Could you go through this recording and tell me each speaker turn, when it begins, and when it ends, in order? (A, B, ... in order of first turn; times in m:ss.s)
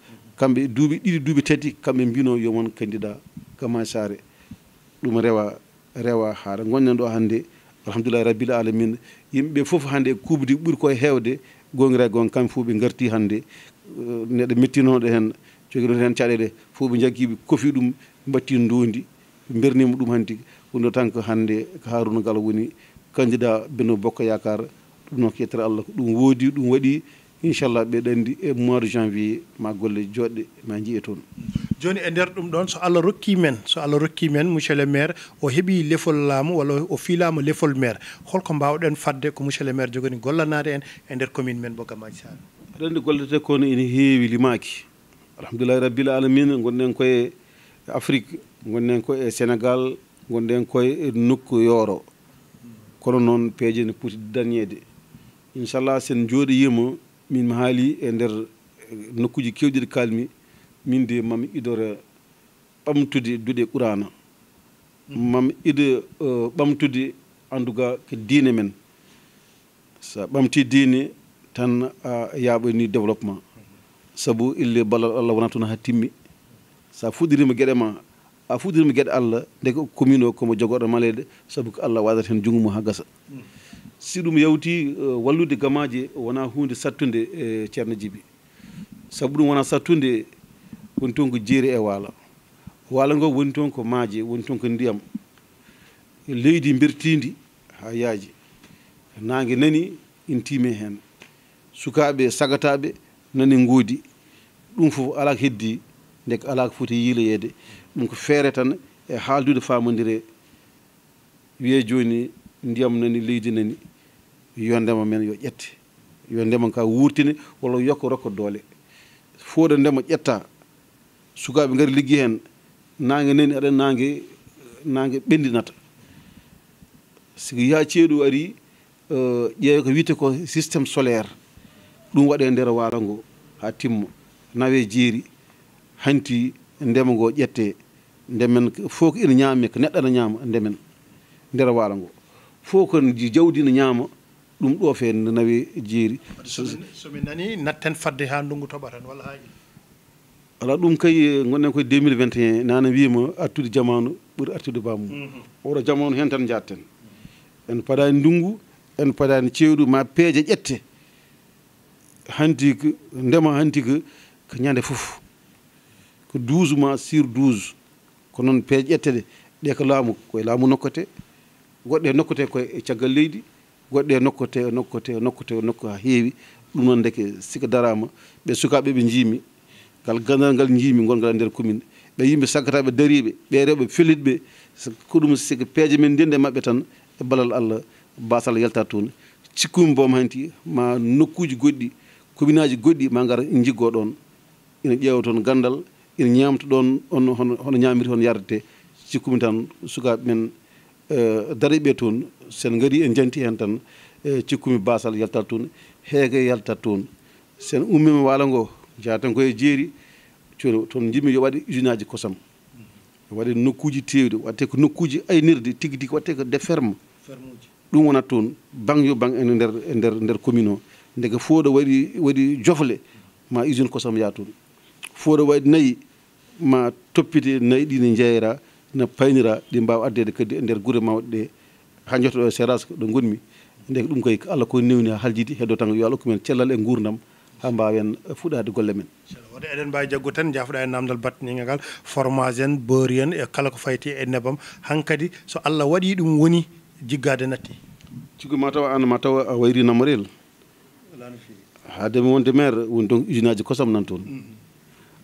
0:00.4-0:04.2 A
0:05.0-0:31.2 A
0:31.8-0:42.4 B
0:42.8-0:44.9 A
0:45.4-0:47.3 A
0:47.9-0:52.1 A
0:53.0-0:54.8 A
0:55.5-1:00.3 A
1:00.9-1:02.0 A
1:02.8-1:04.1 A
1:05.1-1:08.8 A
1:10.0-1:13.4 A
1:14.2-1:16.1 A
1:16.9-1:23.1 A
1:24.0-1:28.2 A
1:29.1-1:30.3 A
1:31.0-1:32.1 A
1:32.9-1:35.0 A
1:36.3-1:38.3 A
1:39.2-1:41.0 A
1:41.8-1:44.0 A
1:44.8-1:50.2 A
1:51.6-1:53.8 A
1:54.6-1:55.8 A
1:56.3-1:58.6 A
1:59.4-2:00.5 A
2:01.4-2:02.4 A
2:03.0-2:04.3 A
2:04.8-2:05.8 A
2:07.4-2:08.6 A
2:09.1-2:11.3 A
2:12.1-2:15.3 A
2:16.0-2:17.8 A
2:18.3-2:20.8 A
2:21.5-2:26.8 A
2:26.4-2:29.5 B
2:30.6-2:36.9 A
2:37.7-2:40.8 A
2:42.3-2:45.2 A
2:46.3-2:47.8 A
2:48.3-2:51.1 A
2:51.8-2:59.4 A
3:00.0-3:14.2 A
3:14.8-3:20.5 A
3:21.1-3:27.1 A
3:27.6-3:29.9 A
3:30.6-3:32.4 A
3:33.3-3:37.0 A
3:37.2-3:37.7 B
3:37.9-3:44.5 A
3:45.1-3:46.0 A
3:46.6-3:51.5 A
3:52.1-3:59.1 A
3:59.3-4:07.8 B
4:08.4-4:10.3 A
4:11.1-4:11.6 B
4:11.9-4:14.3 A